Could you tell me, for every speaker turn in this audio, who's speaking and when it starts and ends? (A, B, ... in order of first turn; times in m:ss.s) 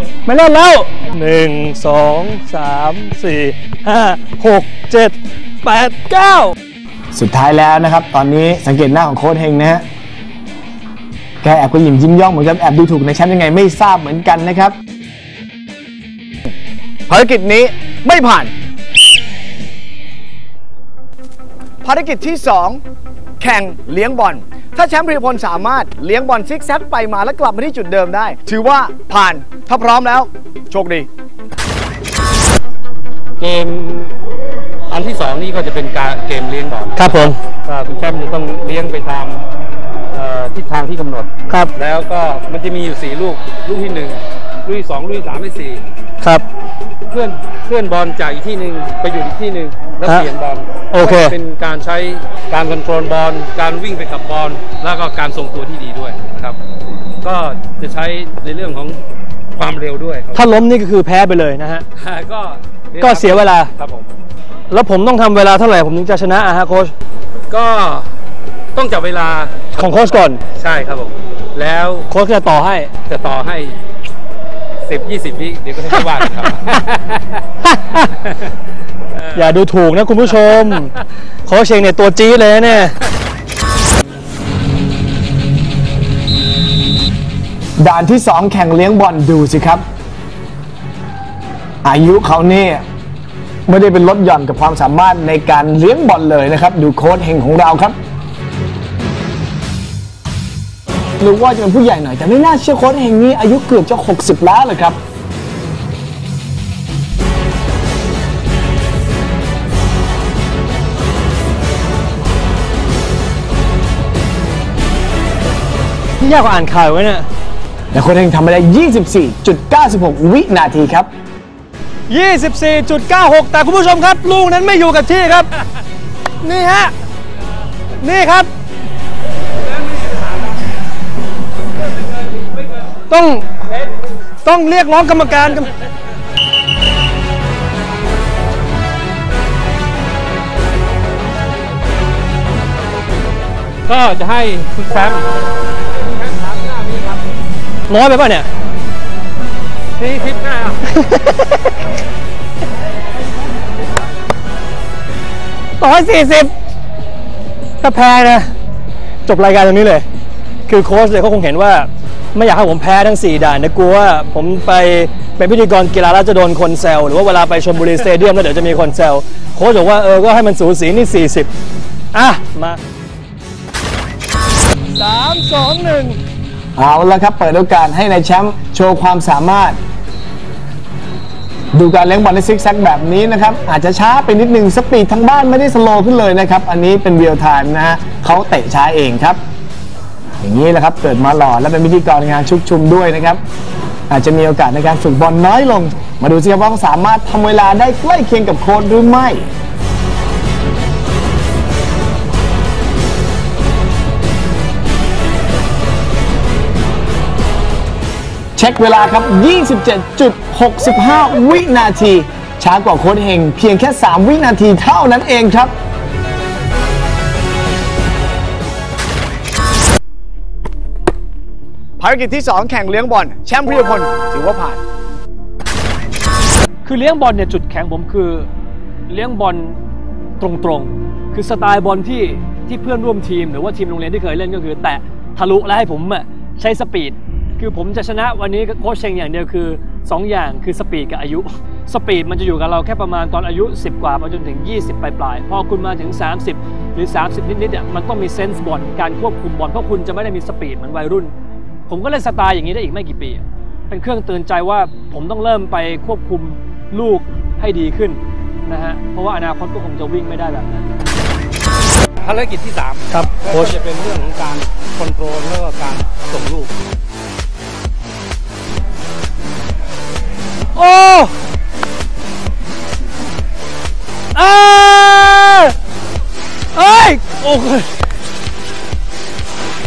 0:00.2-0:06.6 A
0:07.1-0:09.8 B
0:11.4-0:14.7 B
0:17.1-0:18.5 C
0:21.8-0:22.8 C
0:23.4-0:31.1 C
0:33.4-0:34.1 D
0:34.9-0:39.4 D
0:37.0-0:37.4 A
0:40.1-0:45.8 D
0:47.1-0:56.6 D
0:50.0-0:50.3 A
0:50.9-0:51.4 A
0:57.2-0:59.0 D
0:59.6-1:00.5 D
1:00.4-1:01.8 A
1:02.0-1:04.1 D
1:03.0-1:03.7 A
1:04.7-1:06.9 A
1:07.5-1:08.1 D
1:08.7-1:12.1 D
1:09.7-1:10.4 A
1:12.1-1:12.9 A
1:13.1-1:13.8 D
1:14.9-1:17.4 D
1:17.6-1:18.1 A
1:19.2-1:19.5 D
1:19.4-1:20.9 A
1:21.5-1:23.0 A
1:27.8-1:29.8 B
1:31.8-1:32.8 B
1:33.7-1:38.0 B
1:41.2-1:45.0 B
1:56.2-1:57.3 A
1:57.9-2:01.1 B
2:02.1-2:05.5 A
2:06.4-2:06.9 A
2:08.0-2:08.5 A
2:13.1-2:13.5 A
2:14.4-2:15.7 A
2:23.9-2:25.3 D
2:26.4-2:27.1 D
2:27.9-2:28.5 A
2:30.0-2:30.9 D
2:30.9-2:31.6 A
2:35.8-2:36.5 A
2:37.8-2:38.5 A
2:39.2-2:40.0 A
2:40.7-2:51.5 A
2:52.1-2:52.8 A
2:55.0-2:56.2 A
2:56.8-2:59.8 B
3:01.7-3:09.4 B
3:10.4-3:13.4 B
3:14.1-3:19.5 B
3:28.6-3:35.7 B
3:42.0-3:44.8 C
3:46.8-3:48.5 A
3:49.1-3:49.8 A
3:50.4-4:11.3 A
4:11.9-4:20.8 A
4:22.2-4:26.7 D
4:23.1-4:23.8 A
4:30.8-4:31.3 A
4:34.3-4:35.7 A
4:36.8-4:37.9 A